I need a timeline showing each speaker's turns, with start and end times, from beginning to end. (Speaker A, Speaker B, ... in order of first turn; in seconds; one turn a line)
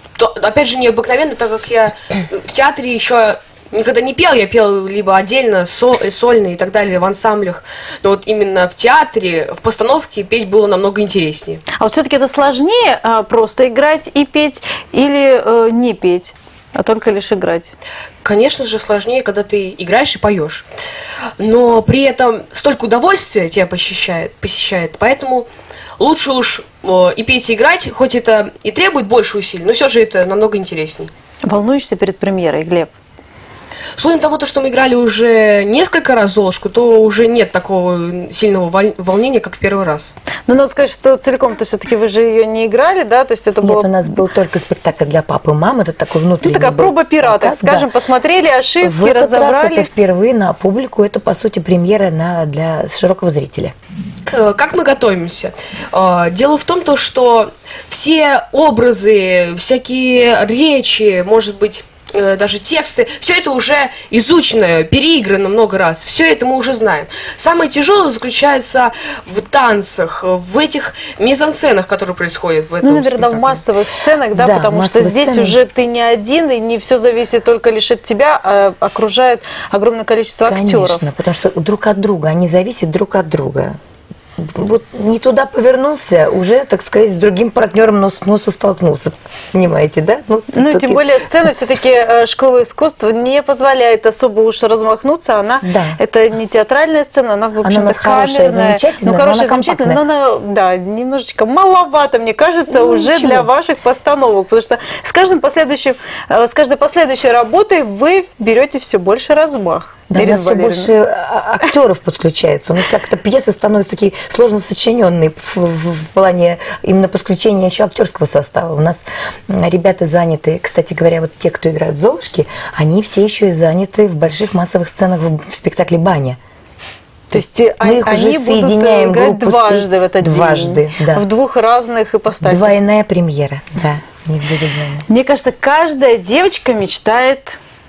Speaker A: 0.2-11.6
Speaker B: 11.8-17.7
Speaker A: 18.2-20.6
Speaker A: 21.4-25.5
Speaker A: 26.0-31.1
Speaker B: 31.5-32.9
Speaker A: 34.0-40.1
Speaker B: 40.5-44.2
Speaker C: 43.6-47.9
Speaker B: 46.4-49.9
Speaker C: 48.8-53.8
Speaker A: 54.3-73.7
Speaker B: 72.8-81.0
Speaker C: 74.3-75.6
Speaker C: 80.5-83.8
Speaker C: 84.4-91.2
Speaker B: 90.5-110.9
Speaker C: 95.7-96.0
Speaker C: 97.6-100.0
Speaker C: 102.7-103.5
Speaker C: 110.1-126.4
Speaker B: 127.3-132.8
Speaker C: 127.3-131.2
Speaker C: 132.4-135.1
Speaker B: 135.1-137.6